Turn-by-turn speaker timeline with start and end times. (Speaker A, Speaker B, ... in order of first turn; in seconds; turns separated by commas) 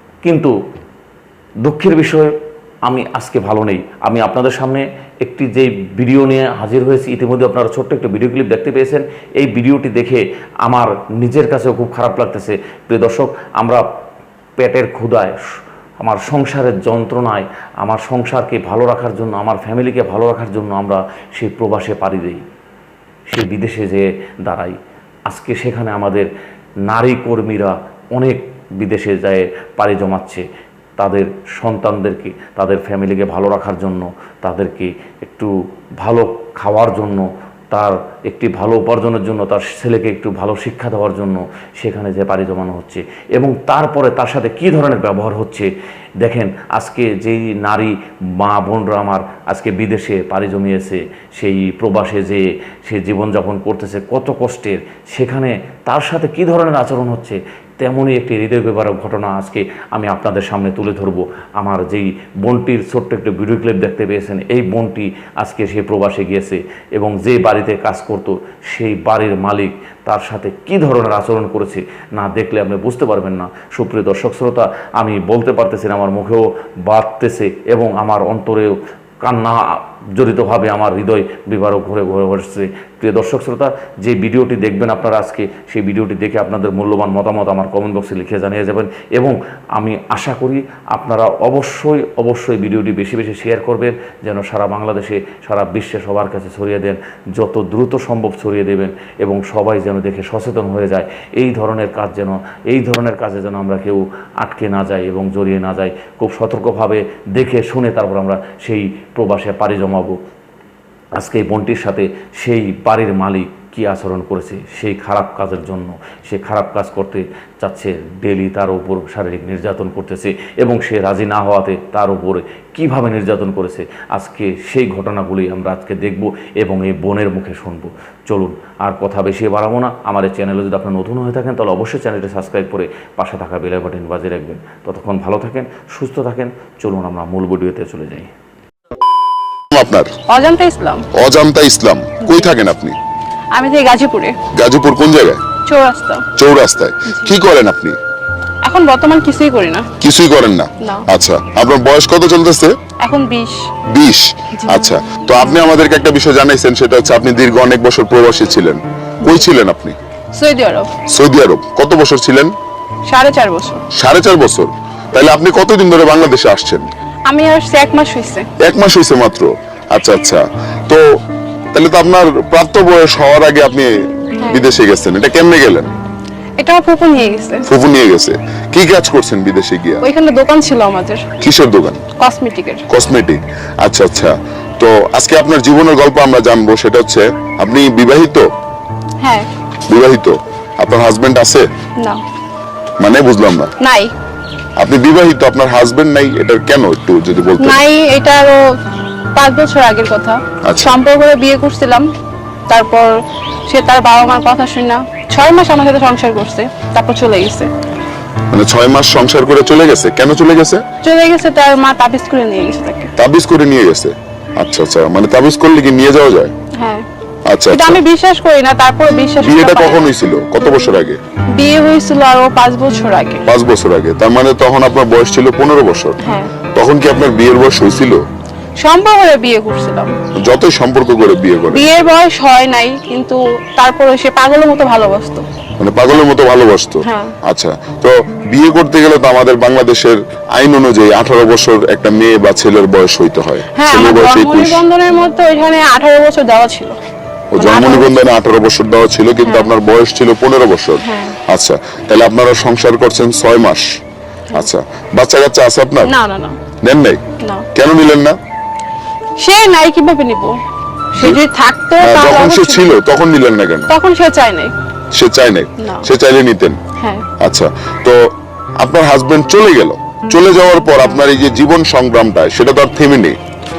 Speaker A: 0.2-0.5, Speaker A: 1.6-2.3, Speaker A: 2.9-13.8, Speaker A: 14.6-15.4, Speaker A: 16.0-22.4, Speaker A: 23.3-24.8, Speaker A: 25.3-26.3, Speaker A: 26.9-30.4, Speaker A: 31.0-45.7, Speaker A: 46.2-110.2, Speaker A: 111.2-138.3, Speaker B: 139.7-140.1, Speaker C: 140.3-141.0, Speaker B: 141.1-143.0, Speaker C: 142.2-142.5, Speaker C: 143.6-144.3, Speaker B: 144.6-145.4, Speaker C: 145.7-146.2, Speaker B: 146.4-148.0, Speaker C: 148.7-149.9, Speaker B: 150.0-152.7, Speaker C: 153.0-153.7, Speaker B: 153.9-160.0, Speaker C: 154.6-154.8, Speaker C: 160.3-160.9, Speaker B: 161.1-162.5, Speaker C: 163.1-163.8, Speaker B: 163.9-166.8, Speaker C: 167.3-168.5, Speaker B: 168.6-171.0, Speaker B: 171.7-173.9, Speaker C: 174.4-174.7, Speaker B: 174.5-176.0, Speaker C: 176.6-177.7, Speaker B: 177.7-180.0, Speaker C: 180.0-181.3, Speaker B: 181.4-182.0, Speaker C: 182.2-182.8, Speaker B: 182.9-188.5, Speaker C: 189.2-189.5, Speaker B: 189.9-191.7, Speaker B: 193.0-193.7, Speaker C: 193.8-194.1, Speaker B: 194.8-197.8, Speaker C: 197.6-198.6, Speaker C: 199.4-202.1, Speaker C: 202.7-203.1, Speaker C: 203.7-207.7, Speaker B: 208.5-210.8, Speaker C: 211.0-213.1, Speaker B: 213.2-216.5, Speaker C: 216.8-217.1, Speaker B: 217.5-218.0, Speaker C: 217.7-220.1, Speaker B: 219.4-221.2, Speaker C: 221.6-223.4, Speaker B: 223.5-226.2, Speaker C: 226.2-226.5, Speaker B: 226.8-228.2, Speaker C: 228.8-230.1, Speaker B: 230.4-231.9, Speaker C: 231.7-235.4, Speaker B: 235.8-244.8, Speaker C: 237.0-237.3, Speaker C: 243.8-247.0, Speaker B: 247.5-253.8, Speaker C: 247.6-248.1, Speaker C: 249.4-249.7, Speaker C: 251.0-251.4, Speaker B: 254.5-256.1, Speaker C: 256.0-256.6, Speaker B: 256.8-257.2, Speaker C: 257.4-257.7, Speaker B: 257.8-258.4, Speaker C: 259.4-260.6, Speaker C: 261.2-262.8, Speaker B: 262.0-263.9, Speaker C: 263.9-264.7, Speaker B: 265.1-266.8, Speaker C: 267.0-267.2, Speaker B: 267.4-273.4